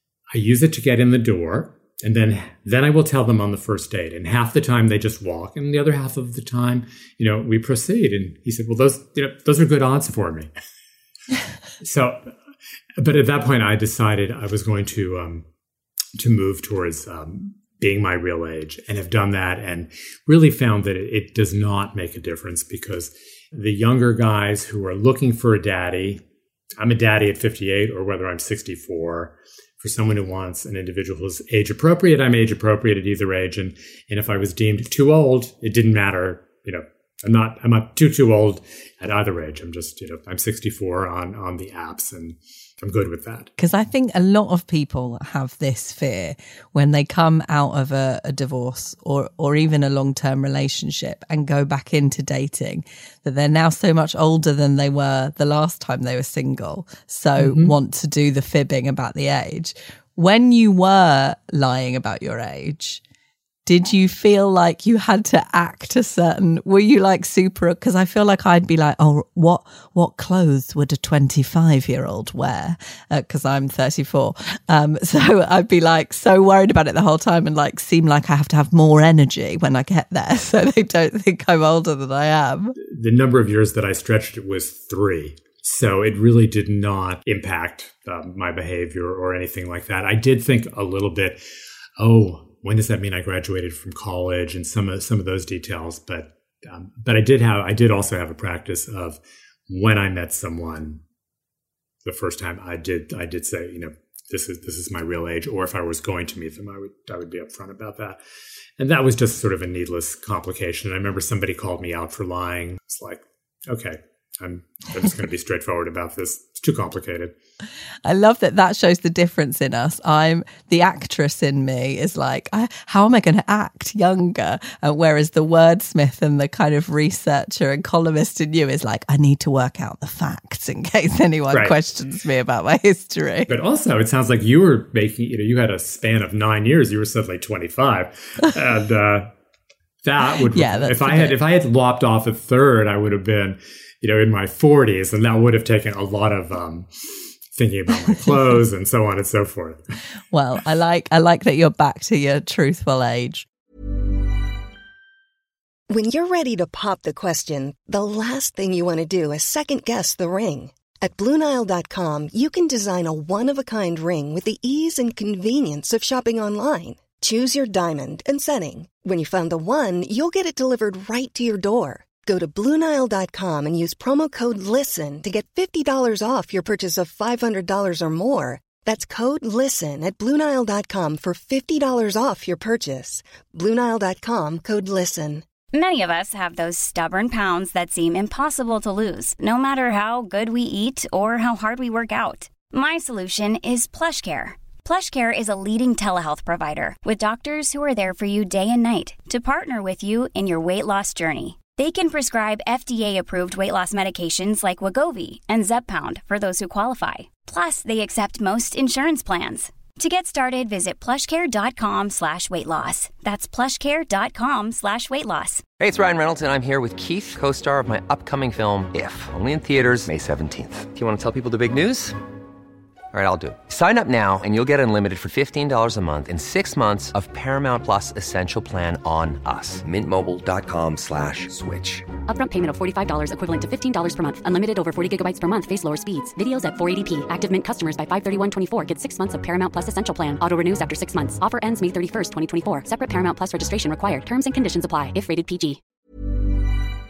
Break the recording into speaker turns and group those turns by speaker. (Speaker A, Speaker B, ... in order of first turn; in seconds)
Speaker A: 0.3-10.5, 11.8-12.4, 13.0-15.5, 16.2-26.2, 26.8-43.5, 57.4-57.7, 82.8-91.4, 92.0-101.0, 102.0-108.2, 108.8-117.3, 131.5-131.8, 133.5-139.3, 140.0-149.8
Speaker B: 43.6-63.0, 63.7-82.8, 118.0-133.5, 140.5-141.4, 150.3-153.5
Speaker C: 155.9-185.4
Speaker D: 185.7-215.7
Speaker E: 215.8-222.2, 223.1-232.1
Speaker F: 232.2-245.8